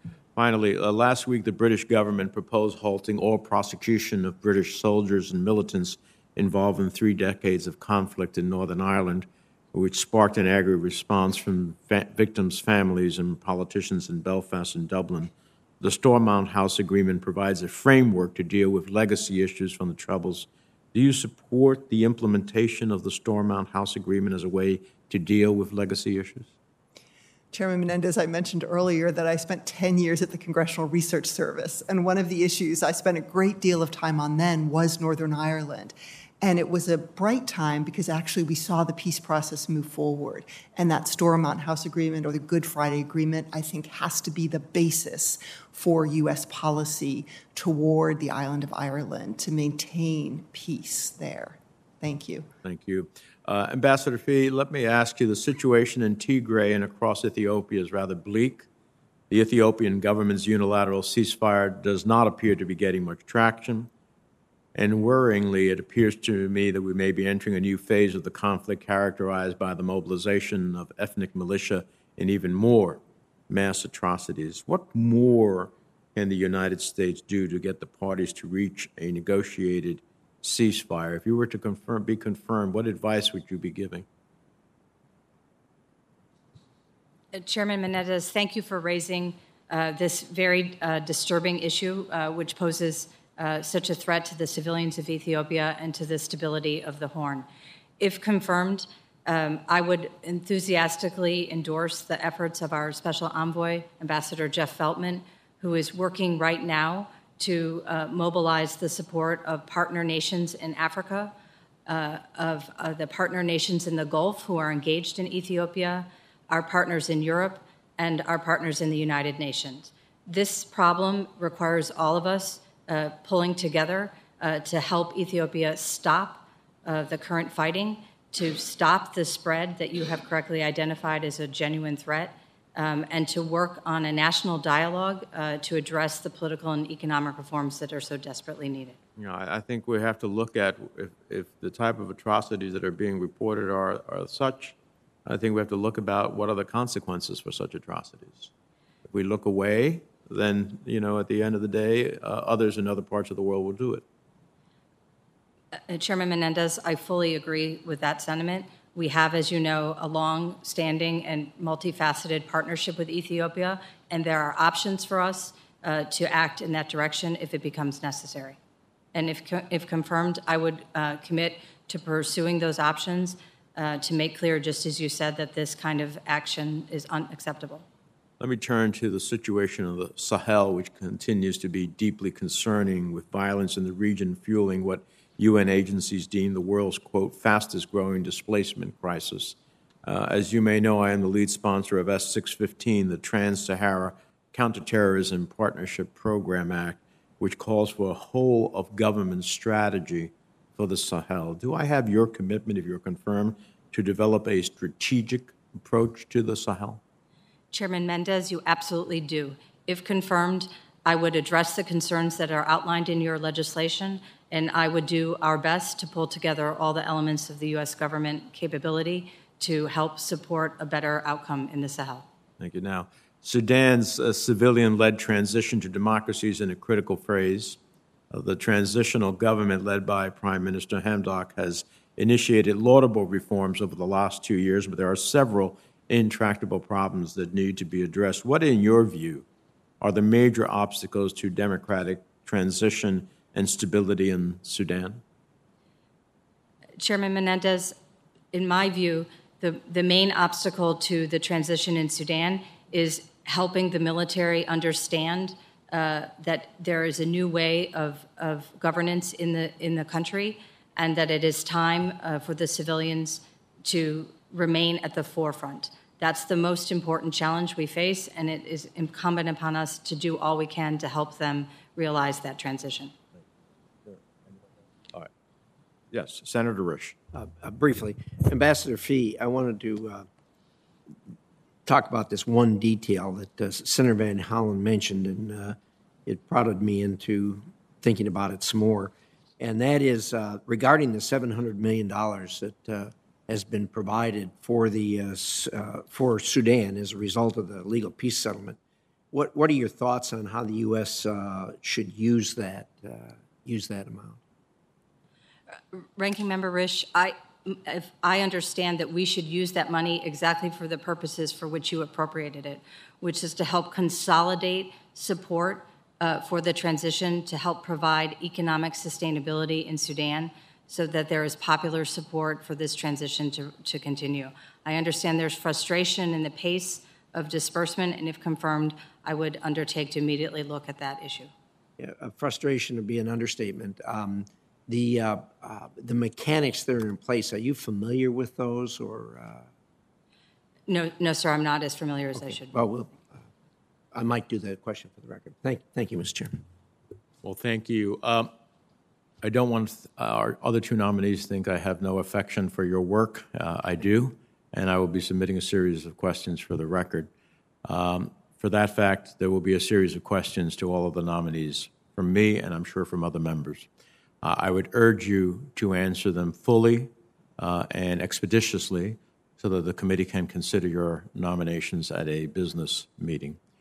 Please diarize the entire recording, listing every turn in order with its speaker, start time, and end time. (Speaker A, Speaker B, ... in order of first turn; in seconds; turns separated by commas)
Speaker A: 0.3-26.5, Speaker B: 27.5-52.5, Speaker A: 52.6-58.7, Speaker A: 59.3-63.9, Speaker A: 64.7-84.0, Speaker C: 87.3-97.5, Speaker C: 98.0-111.3, Speaker C: 111.9-139.0, Speaker A: 139.2-144.7, Speaker A: 145.2-148.5, Speaker A: 149.1-154.0, Speaker C: 155.9-168.6, Speaker C: 169.1-177.8, Speaker A: 178.4-207.0, Speaker C: 207.7-222.3, Speaker A: 222.6-227.8, Speaker A: 228.3-239.4, Speaker A: 240.0-245.2, Speaker C: 247.0-247.9, Speaker C: 248.5-273.1, Speaker A: 276.1-277.1, Speaker D: 277.3-280.3, Speaker D: 281.9-298.8, Speaker D: 299.3-304.4, Speaker C: 305.9-331.5, Speaker D: 332.0-339.6, Speaker C: 340.9-342.8, Speaker D: 342.4-343.2, Speaker D: 344.1-346.6, Speaker A: 347.4-348.5, Speaker A: 349.4-357.3, Speaker A: 357.8-363.9, Speaker A: 364.4-373.6